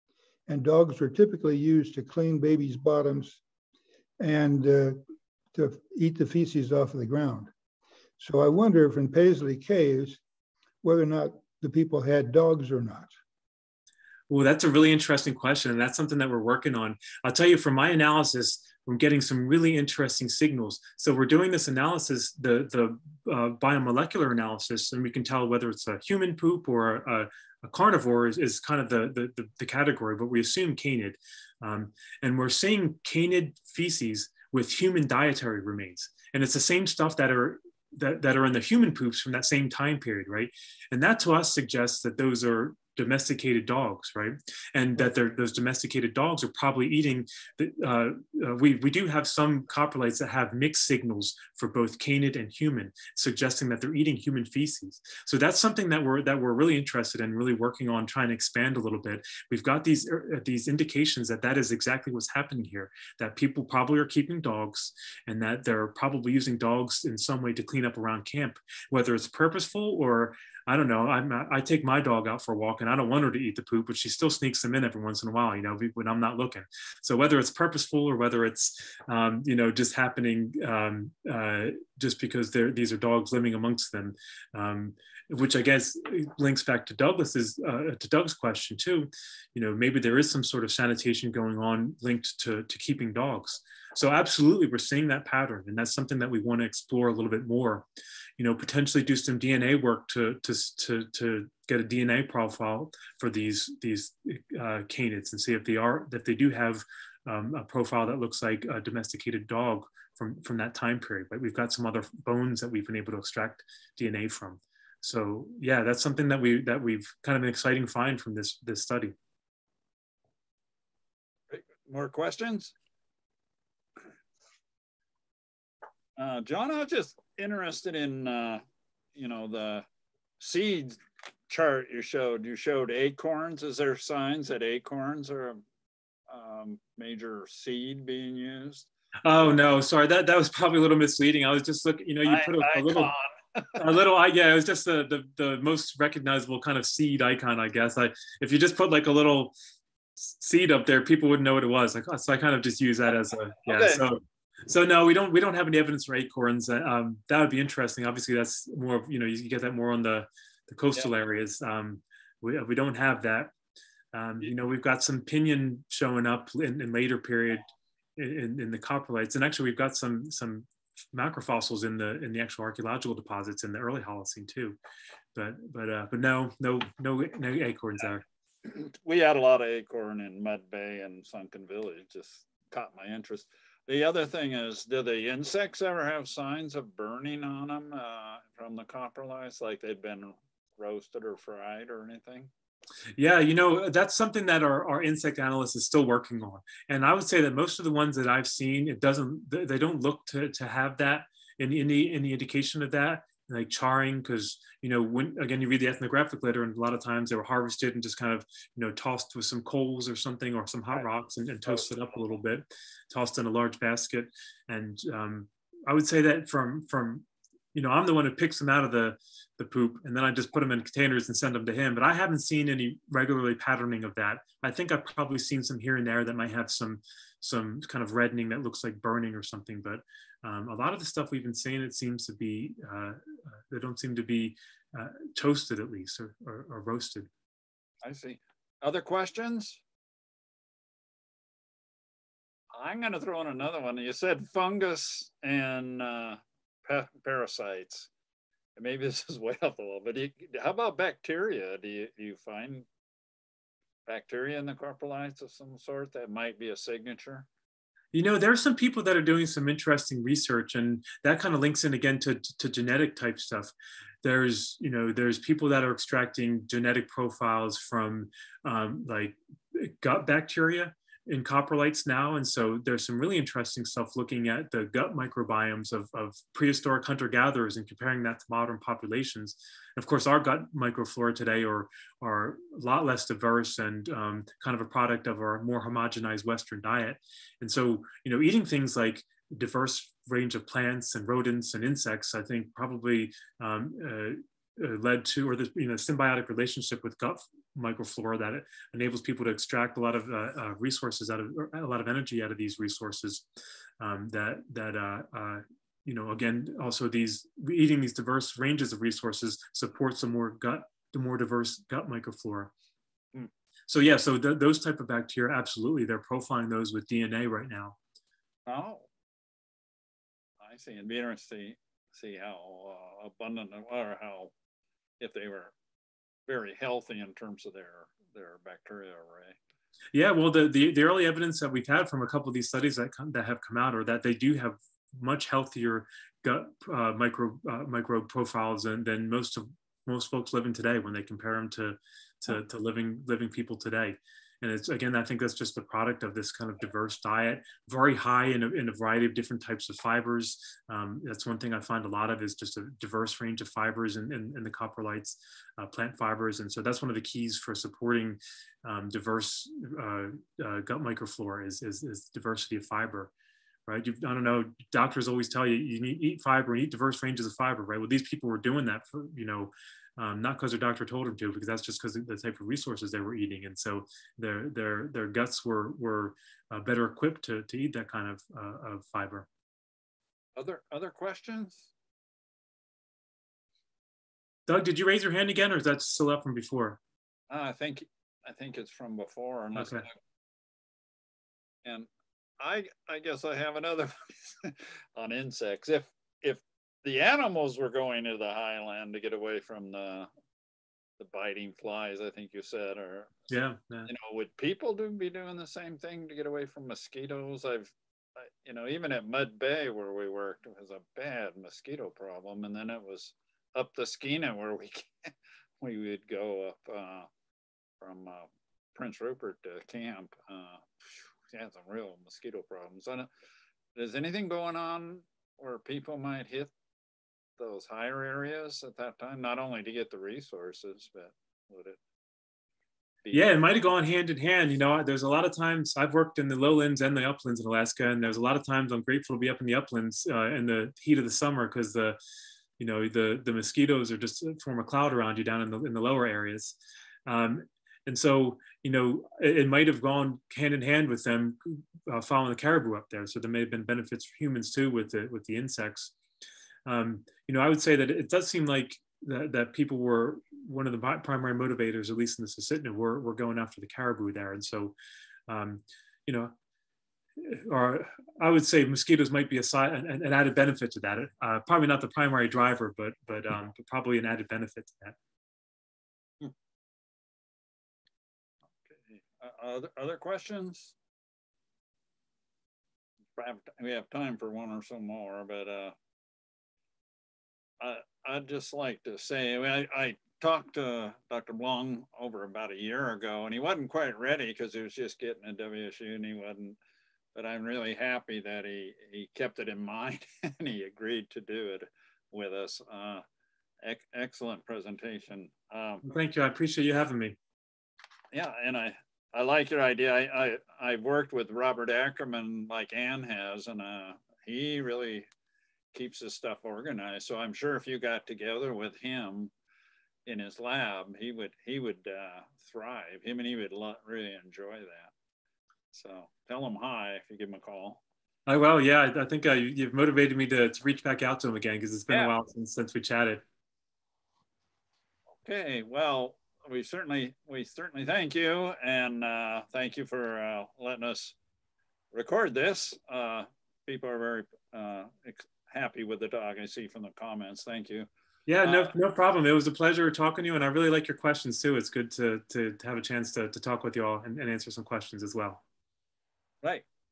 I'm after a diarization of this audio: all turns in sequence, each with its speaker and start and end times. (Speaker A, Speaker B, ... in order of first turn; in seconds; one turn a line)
Speaker A: 0.5-3.4
Speaker A: 4.2-5.0
Speaker A: 5.5-7.5
Speaker A: 8.2-10.2
Speaker A: 10.8-13.1
Speaker B: 14.3-97.8
Speaker B: 98.4-119.2
Speaker C: 121.5-122.7
Speaker C: 126.2-128.6
Speaker C: 129.1-129.8
Speaker C: 130.4-135.6
Speaker C: 136.3-138.9
Speaker B: 139.2-143.1
Speaker C: 142.2-143.8
Speaker B: 143.8-149.5
Speaker B: 150.2-163.5
Speaker C: 153.7-154.0
Speaker B: 164.1-174.8
Speaker B: 175.3-178.2
Speaker C: 178.6-192.5
Speaker B: 193.2-237.3
Speaker C: 238.0-239.8
Speaker C: 242.7-248.1
Speaker C: 248.8-252.9
Speaker C: 254.1-257.5
Speaker B: 258.1-303.5
Speaker B: 304.0-312.7
Speaker B: 313.9-318.0
Speaker C: 318.6-319.1
Speaker C: 320.6-324.5
Speaker C: 325.2-325.7
Speaker C: 326.5-329.6
Speaker B: 330.1-363.3
Speaker B: 363.9-379.5
Speaker C: 380.6-381.9
Speaker B: 384.7-387.0
Speaker C: 387.5-390.1
Speaker B: 389.8-390.1
Speaker C: 392.6-400.3
Speaker C: 401.2-403.3
Speaker B: 403.5-404.1
Speaker C: 404.1-417.3
Speaker C: 418.0-423.3
Speaker C: 423.9-426.7
Speaker C: 427.6-432.0
Speaker B: 433.3-442.2
Speaker B: 442.8-456.1
Speaker B: 456.9-464.9
Speaker B: 465.5-466.5
Speaker B: 467.4-475.2
Speaker C: 478.9-480.9
Speaker C: 483.4-485.9
Speaker C: 487.8-496.8
Speaker C: 497.3-503.2
Speaker C: 503.8-506.0
Speaker B: 506.0-507.4
Speaker C: 508.3-515.3
Speaker C: 515.9-519.5
Speaker C: 520.2-525.1
Speaker C: 525.9-528.0
Speaker B: 528.5-533.4
Speaker C: 532.1-532.3
Speaker C: 535.4-541.3
Speaker C: 542.1-548.1
Speaker B: 548.5-555.6
Speaker C: 548.6-548.9